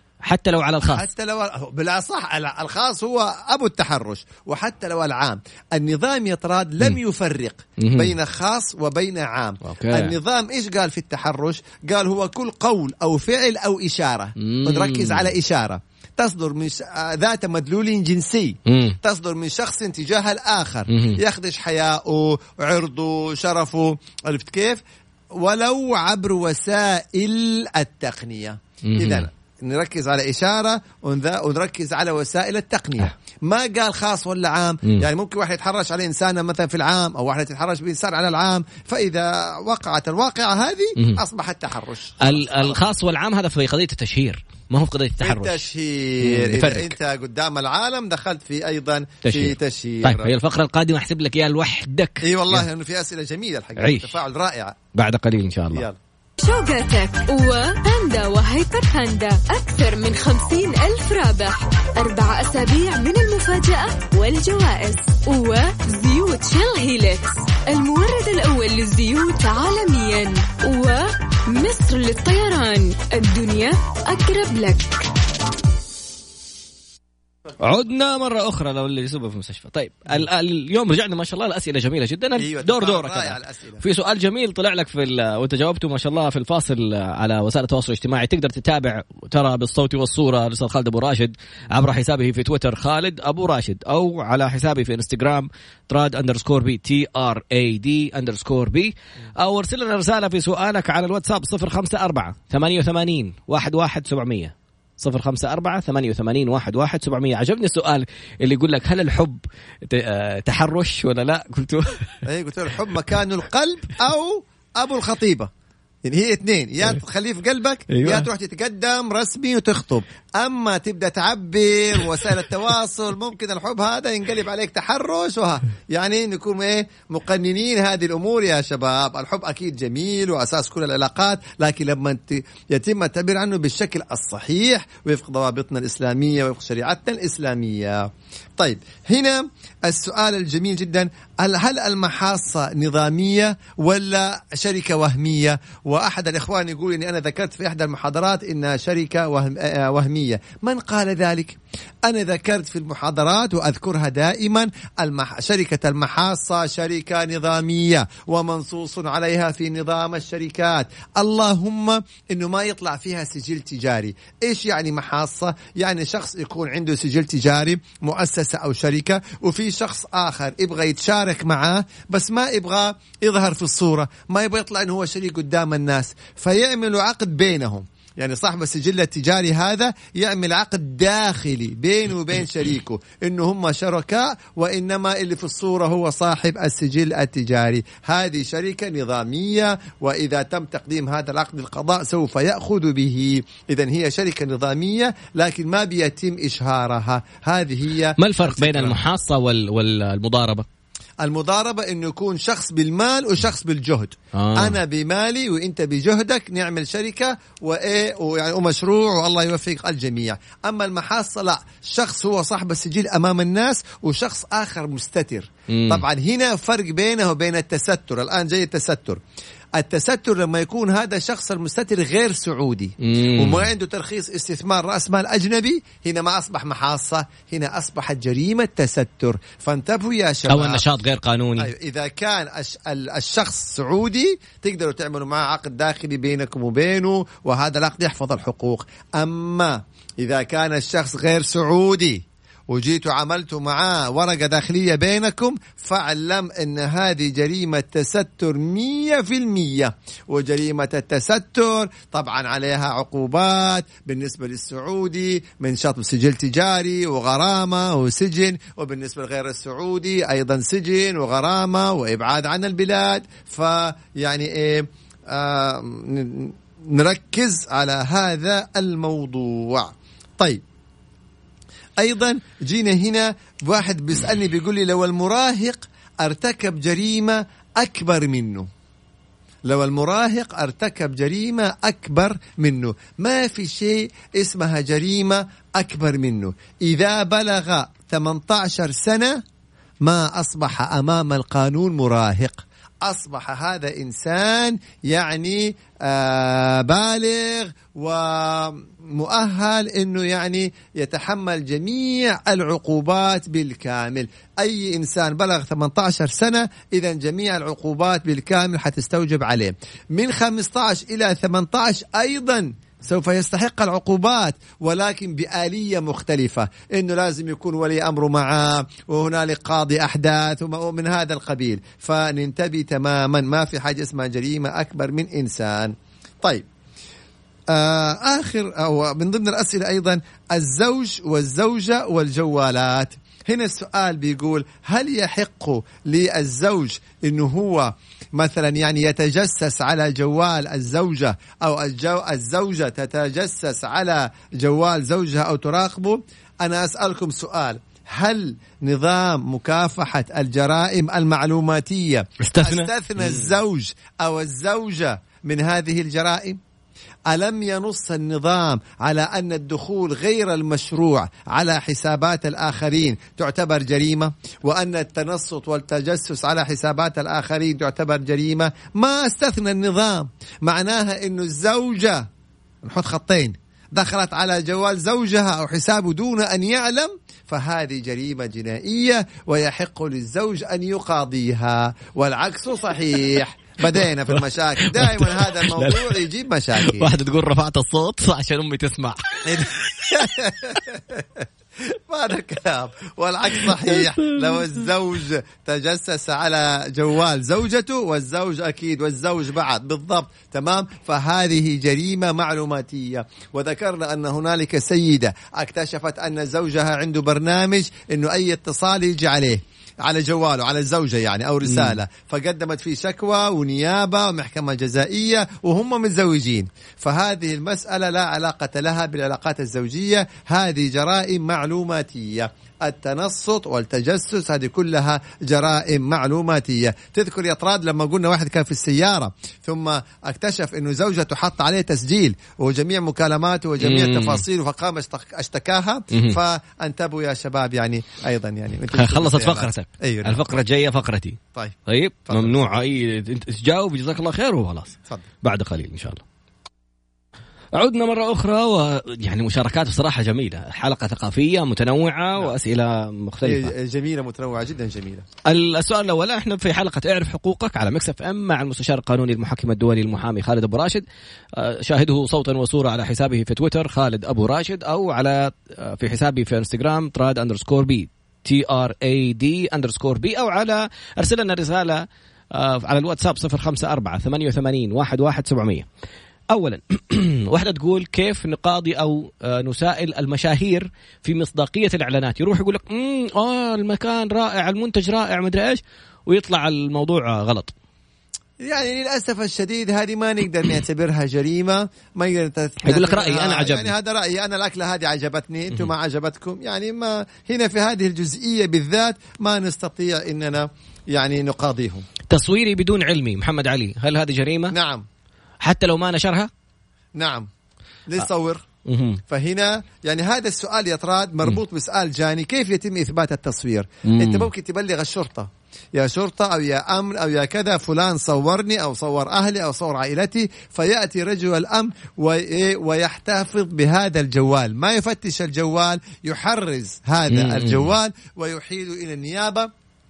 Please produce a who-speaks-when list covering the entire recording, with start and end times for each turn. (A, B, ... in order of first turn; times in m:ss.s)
0:00.2-0:01.1 A
0:00.8-0:24.8 B
0:07.8-0:08.1 A
0:09.6-0:10.2 A
0:14.4-0:15.3 A
0:18.6-0:19.0 A
0:20.9-0:21.2 A
0:25.3-0:42.9 B
0:28.8-0:29.3 A
0:42.2-0:45.7 A
0:45.2-0:50.3 B
0:46.2-0:46.9 A
0:49.2-0:52.6 A
0:52.2-0:54.8 B
0:53.8-0:54.1 A
0:54.9-0:55.9 A
0:55.7-0:56.0 B
0:56.4-1:15.0 C
1:17.6-1:52.2 A
1:22.4-1:23.8 B
1:52.2-1:55.5 B
1:56.0-3:19.0 B
1:57.9-1:58.3 A
3:18.2-3:20.6 A
3:21.2-3:39.2 B
3:24.3-3:24.8 A
3:35.7-3:36.0 A
3:39.7-3:50.8 B
3:43.0-3:43.7 A
3:50.5-3:51.7 A
3:51.6-4:30.6 B
4:32.0-4:38.7 B
4:39.6-4:49.4 B
4:50.0-5:26.6 B
5:27.7-5:56.6 B
5:52.4-5:53.5 A
5:57.3-6:12.2 B
6:12.8-6:27.1 B
6:23.9-6:26.2 A
6:26.8-6:30.2 A
6:29.4-7:20.4 B
6:33.5-6:34.8 A
6:51.6-6:52.0 A
7:13.8-7:14.4 A
7:16.1-7:16.4 A
7:18.9-7:26.2 A
7:22.3-7:22.6 B
7:27.7-7:33.7 A
7:33.4-7:35.2 B
7:35.4-7:41.0 A
7:41.5-7:55.8 A
7:56.5-8:07.7 A
8:08.6-8:22.0 B
8:12.8-8:13.9 A
8:22.3-8:24.7 A
8:24.7-8:25.0 B
8:25.6-8:26.5 A
8:27.2-8:27.5 B
8:28.1-8:28.6 B
8:28.8-8:29.2 A
8:29.2-8:49.7 B
8:34.0-8:34.5 A
8:47.3-8:47.9 A